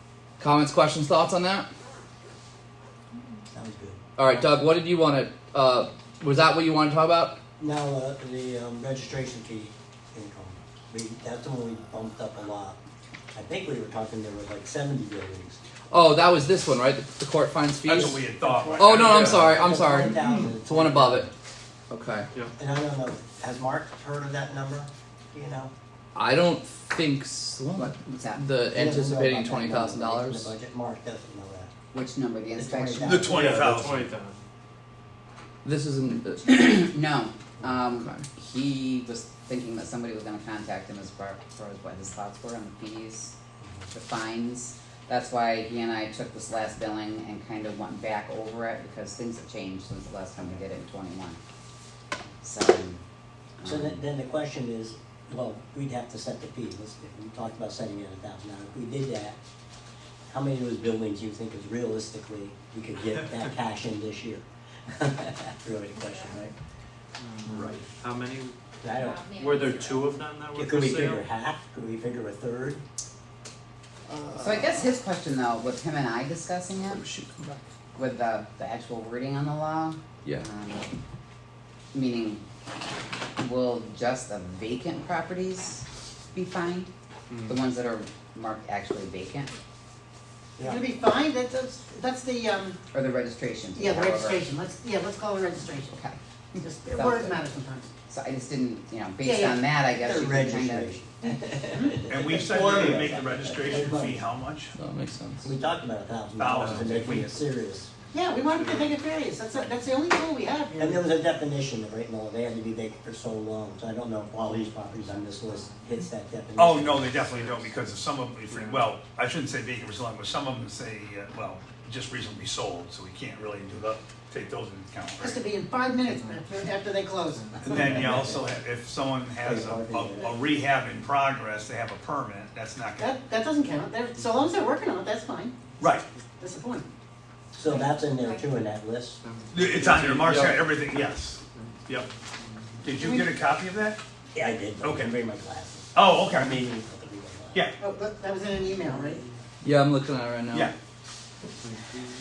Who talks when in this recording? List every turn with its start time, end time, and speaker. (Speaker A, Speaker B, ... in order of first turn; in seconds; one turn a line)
Speaker A: 0.4-1.7
Speaker B: 3.5-4.5
Speaker A: 4.2-7.4
Speaker B: 7.6-12.8
Speaker B: 13.3-15.6
Speaker A: 15.9-18.2
Speaker C: 17.8-19.5
Speaker B: 18.2-21.3
Speaker A: 18.8-21.3
Speaker D: 19.9-20.2
Speaker A: 21.9-22.3
Speaker B: 22.6-25.7
Speaker A: 26.1-30.5
Speaker D: 27.8-28.9
Speaker B: 28.7-31.7
Speaker D: 31.9-33.3
Speaker B: 32.5-33.6
Speaker C: 33.0-34.1
Speaker E: 33.3-34.5
Speaker A: 35.6-36.9
Speaker D: 36.5-43.3
Speaker A: 38.0-38.2
Speaker B: 43.6-43.9
Speaker D: 43.9-51.4
Speaker D: 52.4-53.0
Speaker D: 53.6-54.0
Speaker B: 53.6-59.4
Speaker B: 60.3-66.5
Speaker E: 67.2-68.6
Speaker C: 67.5-67.8
Speaker B: 68.8-69.9
Speaker F: 69.0-70.1
Speaker E: 69.4-71.2
Speaker B: 70.5-72.8
Speaker D: 74.4-77.0
Speaker A: 76.9-77.5
Speaker D: 78.0-80.9
Speaker D: 81.9-82.5
Speaker D: 83.4-86.9
Speaker E: 87.3-87.6
Speaker D: 87.5-89.5
Speaker B: 90.6-90.8
Speaker F: 90.6-92.8
Speaker D: 92.9-94.5
Speaker F: 93.7-96.0
Speaker D: 95.9-96.2
Speaker F: 96.6-97.9
Speaker D: 96.9-97.4
Speaker D: 98.1-101.0
Speaker F: 99.2-99.6
Speaker B: 99.9-104.2
Speaker F: 101.7-102.0
Speaker C: 102.1-104.7
Speaker A: 104.8-105.5
Speaker B: 105.4-107.9
Speaker C: 106.4-107.3
Speaker E: 106.5-107.2
Speaker E: 107.9-108.9
Speaker F: 108.1-111.1
Speaker B: 110.8-117.2
Speaker E: 114.6-115.8
Speaker C: 116.6-125.4
Speaker E: 117.2-117.8
Speaker E: 118.5-119.0
Speaker F: 125.2-127.5
Speaker E: 126.0-126.7
Speaker E: 127.3-128.5
Speaker C: 127.6-133.2
Speaker B: 127.7-128.4
Speaker B: 129.4-130.4
Speaker F: 133.0-135.6
Speaker C: 135.8-136.1
Speaker F: 136.4-136.9
Speaker B: 137.5-139.2
Speaker F: 137.7-138.6
Speaker E: 139.2-141.0
Speaker C: 139.5-142.1
Speaker E: 141.5-142.9
Speaker C: 142.8-144.0
Speaker F: 143.0-143.3
Speaker B: 144.3-147.7
Speaker C: 144.8-145.1
Speaker C: 145.9-146.6
Speaker F: 147.8-149.2
Speaker B: 148.8-149.3
Speaker A: 149.6-150.7